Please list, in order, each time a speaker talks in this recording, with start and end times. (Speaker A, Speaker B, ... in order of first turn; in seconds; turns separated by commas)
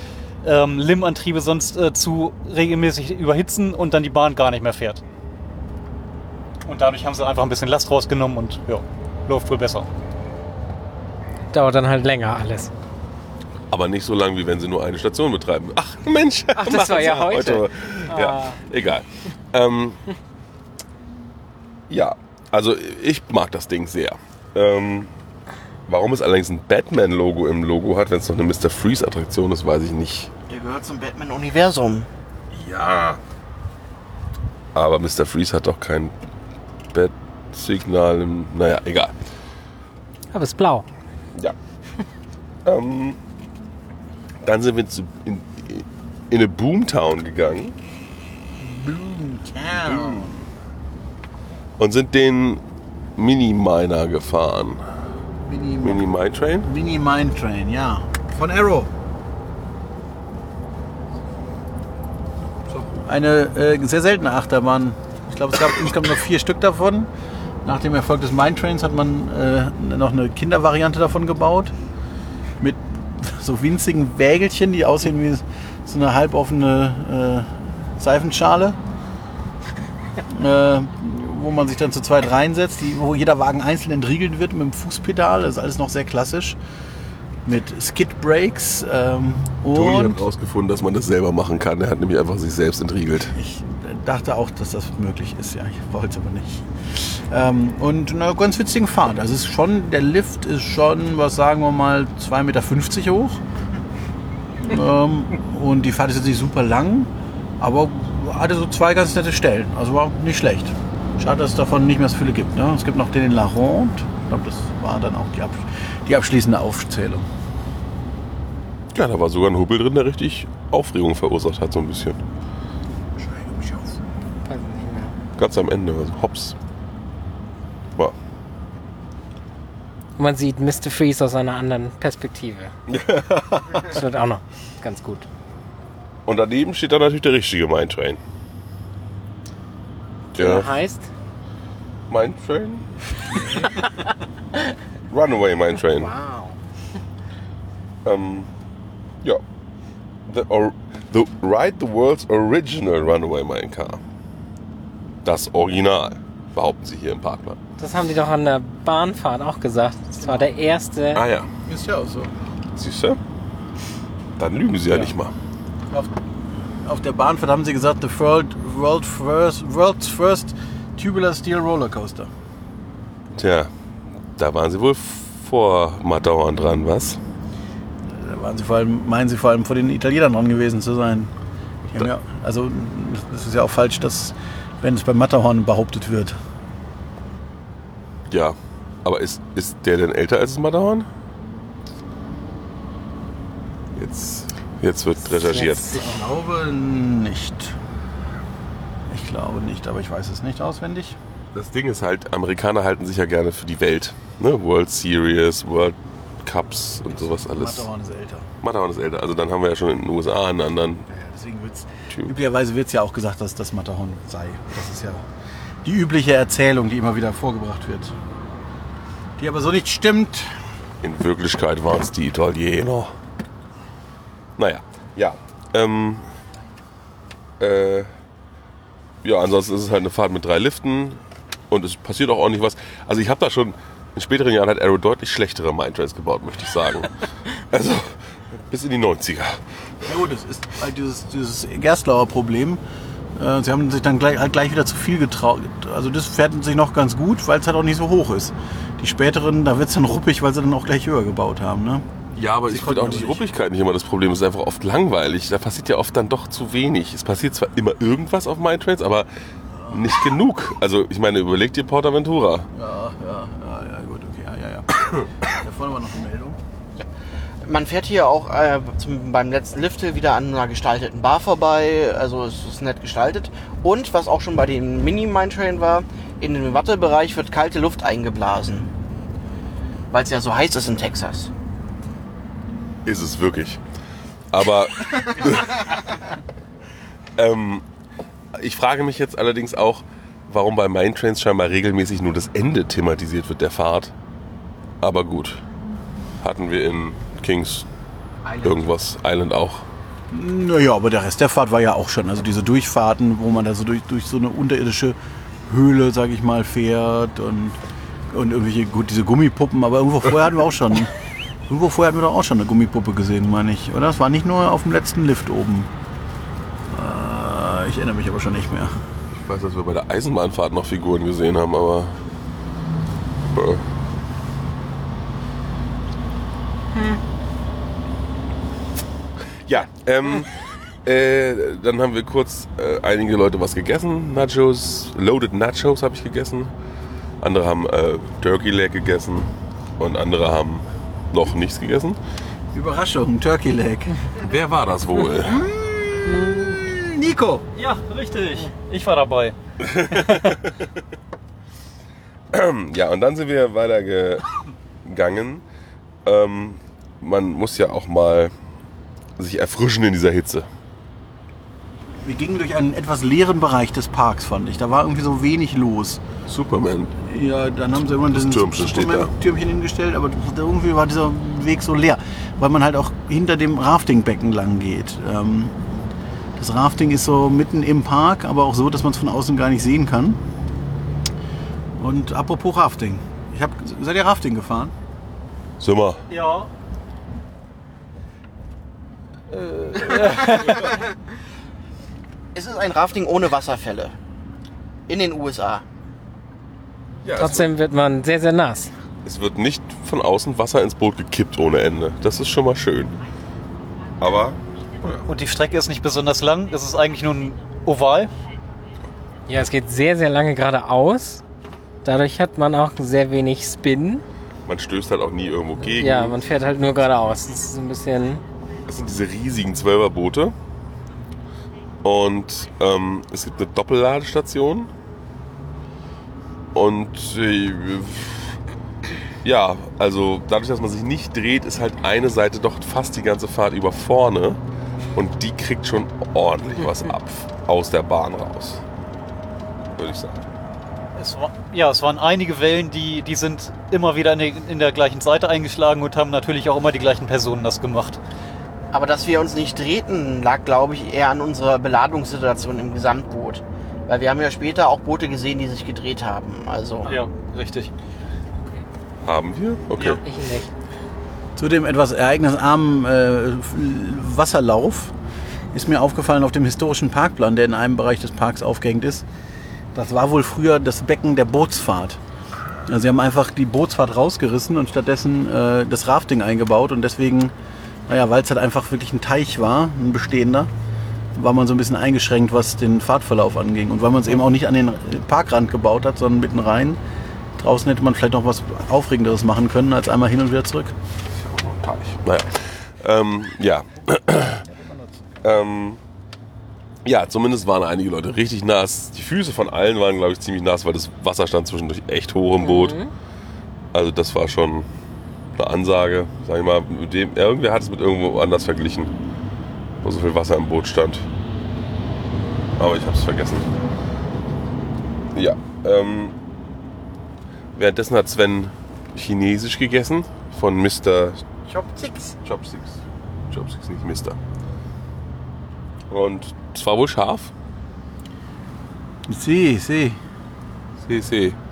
Speaker A: 0.4-5.0, Speaker A: 6.7-9.9, Speaker B: 11.5-12.7, Speaker C: 13.7-20.0, Speaker B: 16.5-18.6, Speaker C: 21.9-25.1, Speaker C: 25.9-30.3, Speaker D: 30.5-32.1, Speaker C: 32.5-33.2, Speaker C: 34.7-36.1, Speaker C: 36.9-39.1, Speaker B: 40.3-40.9, Speaker C: 42.6-43.2, Speaker C: 44.4-47.8, Speaker E: 48.6-50.3, Speaker C: 49.8-50.4, Speaker C: 51.8-52.6, Speaker C: 53.1-54.8, Speaker E: 55.5-56.1, Speaker C: 55.8-56.7, Speaker E: 56.6-58.9, Speaker E: 63.0-67.1, Speaker E: 67.6-71.7, Speaker E: 72.6-78.8, Speaker E: 80.3-86.6, Speaker E: 87.4-90.2, Speaker C: 89.7-93.3, Speaker E: 93.3-103.4, Speaker E: 104.6-117.3, Speaker C: 118.9-122.2, Speaker E: 123.2-124.0, Speaker B: 124.5-125.1, Speaker C: 125.4-126.5, Speaker B: 130.2-132.7, Speaker C: 132.9-134.0, Speaker B: 133.8-135.2, Speaker C: 136.2-138.2, Speaker B: 140.3-141.1, Speaker C: 140.3-140.7, Speaker C: 142.1-142.9, Speaker C: 145.1-146.2, Speaker B: 146.1-146.5, Speaker C: 148.0-148.5, Speaker C: 150.3-154.0, Speaker C: 155.2-157.6, Speaker B: 157.8-161.2, Speaker E: 160.2-160.5, Speaker C: 161.1-161.5, Speaker E: 161.7-162.3, Speaker C: 162.8-163.2, Speaker C: 164.4-165.3, Speaker E: 165.9-166.1, Speaker E: 166.8-172.3, Speaker C: 173.3-173.7, Speaker C: 174.4-177.2, Speaker E: 178.1-181.3, Speaker E: 181.9-186.3, Speaker C: 188.3-191.1, Speaker C: 193.9-196.0, Speaker E: 195.5-197.8, Speaker E: 199.1-201.2, Speaker C: 201.5-207.9, Speaker E: 207.1-208.5, Speaker C: 208.6-211.1, Speaker E: 211.1-215.2, Speaker E: 215.8-218.2, Speaker E: 219.4-220.6, Speaker C: 221.0-223.1, Speaker C: 224.6-226.3, Speaker C: 227.6-228.1, Speaker C: 229.2-239.6, Speaker E: 240.0-242.8, Speaker E: 243.3-252.1, Speaker C: 252.3-259.3, Speaker E: 252.7-253.4, Speaker E: 259.8-260.0, Speaker C: 259.9-262.7, Speaker E: 262.7-266.6, Speaker D: 267.6-278.9, Speaker D: 280.1-281.5, Speaker C: 283.0-283.8, Speaker C: 284.5-285.9, Speaker C: 287.4-287.9, Speaker C: 288.5-294.1, Speaker C: 295.0-295.6, Speaker C: 296.4-297.9, Speaker C: 298.5-299.9, Speaker E: 300.3-305.1, Speaker E: 305.7-307.8, Speaker E: 308.3-311.1, Speaker E: 311.7-315.9, Speaker E: 316.9-318.9, Speaker C: 319.3-322.3, Speaker C: 323.4-323.8, Speaker C: 329.6-330.5, Speaker C: 331.0-336.7, Speaker C: 337.4-342.2, Speaker E: 342.7-344.2, Speaker C: 344.4-345.6, Speaker E: 345.4-347.7, Speaker A: 347.8-349.5, Speaker C: 349.8-350.9, Speaker A: 350.1-350.6, Speaker C: 352.5-354.5, Speaker C: 355.0-355.6, Speaker C: 356.2-358.5, Speaker C: 359.4-360.7, Speaker E: 362.2-366.2, Speaker C: 366.5-367.2, Speaker E: 367.2-375.8, Speaker C: 368.3-369.3, Speaker E: 376.6-380.4, Speaker E: 382.0-384.9, Speaker C: 385.8-386.2, Speaker A: 386.3-386.7, Speaker C: 389.6-390.7, Speaker A: 389.9-390.8, Speaker D: 392.5-394.1, Speaker D: 395.1-395.8, Speaker C: 397.2-397.7, Speaker B: 397.3-398.9, Speaker C: 399.2-403.1, Speaker C: 404.2-405.3, Speaker A: 405.2-408.3, Speaker B: 409.5-411.4, Speaker B: 412.0-414.2, Speaker C: 414.6-416.4, Speaker B: 415.9-418.4, Speaker C: 418.9-420.5, Speaker C: 422.0-424.9, Speaker C: 426.7-428.6, Speaker C: 429.4-434.6, Speaker C: 435.1-438.8, Speaker C: 440.0-440.4, Speaker A: 441.1-448.2, Speaker D: 448.9-457.1, Speaker A: 457.0-457.9, Speaker C: 459.2-460.2, Speaker B: 460.2-460.7, Speaker E: 461.6-465.1, Speaker E: 465.7-469.2, Speaker E: 469.9-472.2, Speaker E: 472.8-477.5, Speaker E: 478.1-480.7, Speaker E: 481.3-487.0, Speaker E: 487.6-490.9, Speaker C: 491.5-494.6, Speaker C: 495.4-496.0, Speaker C: 497.0-503.0, Speaker B: 502.6-503.1, Speaker C: 503.9-504.9, Speaker C: 505.6-509.1, Speaker C: 510.0-511.3, Speaker C: 512.8-513.7, Speaker C: 515.3-516.4, Speaker C: 517.8-521.4, Speaker E: 521.7-522.3, Speaker C: 522.4-524.4, Speaker C: 526.1-527.5, Speaker E: 529.3-530.2, Speaker C: 531.0-531.6